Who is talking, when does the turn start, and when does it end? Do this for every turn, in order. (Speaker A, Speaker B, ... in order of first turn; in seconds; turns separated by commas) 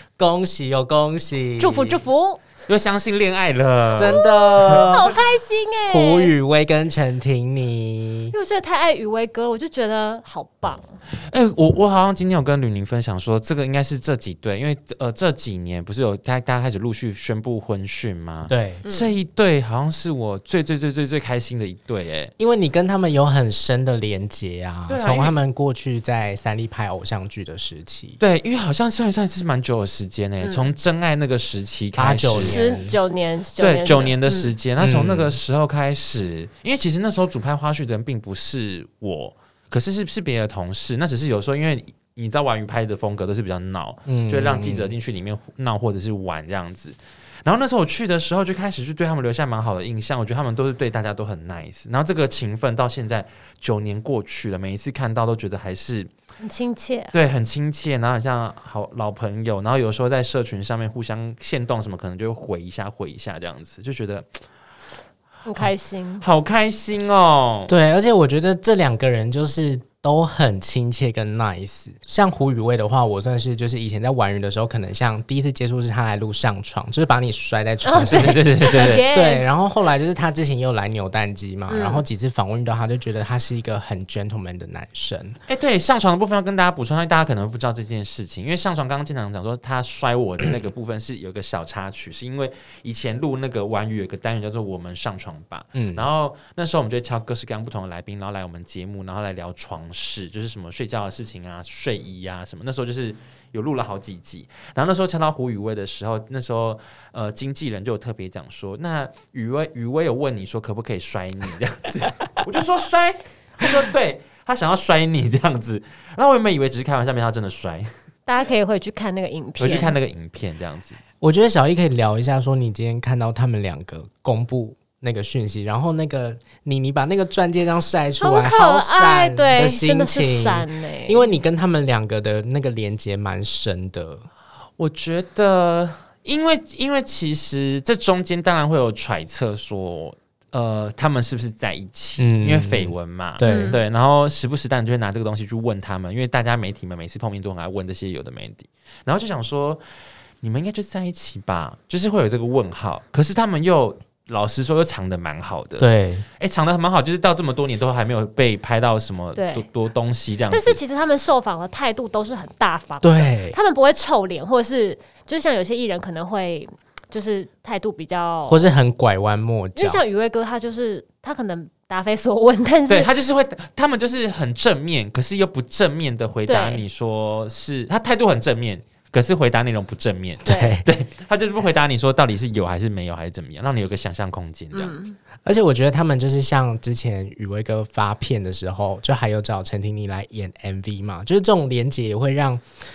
Speaker A: 0.2-2.0, Speaker B: 1.6-2.4, Speaker C: 2.7-4.8, Speaker A: 4.0-5.1, Speaker B: 4.0-6.3, Speaker A: 5.9-8.3, Speaker B: 8.3-10.9, Speaker C: 11.3-22.3, Speaker A: 18.5-18.8, Speaker B: 18.8-19.2, Speaker A: 22.4-28.2, Speaker C: 24.9-25.4, Speaker C: 28.2-32.6, Speaker B: 30.4-30.7, Speaker A: 31.9-33.0, Speaker B: 32.4-34.5, Speaker C: 33.6-56.1, Speaker A: 34.8-35.4, Speaker A: 44.1-45.0, Speaker B: 56.4-57.1, Speaker C: 57.1-64.4, Speaker B: 65.5-66.2, Speaker C: 66.2-67.7, Speaker A: 67.7-85.4, Speaker B: 77.8-79.5, Speaker C: 78.0-79.0, Speaker B: 81.7-82.0, Speaker C: 85.5-117.9, Speaker A: 95.8-96.1, Speaker B: 118.3-120.0, Speaker C: 119.6-121.0, Speaker A: 121.2-134.3, Speaker B: 128.2-131.3, Speaker C: 134.8-149.8, Speaker A: 142.2-143.8, Speaker B: 143.4-143.8, Speaker C: 150.4-160.8, Speaker A: 155.8-156.3, Speaker B: 159.4-159.7, Speaker B: 160.5-168.7, Speaker A: 163.0-163.6, Speaker A: 168.5-170.0, Speaker B: 169.8-173.1, Speaker C: 172.9-185.0, Speaker B: 176.5-176.8, Speaker B: 180.4-180.8, Speaker A: 180.5-180.8, Speaker B: 184.7-185.2, Speaker A: 185.4-192.6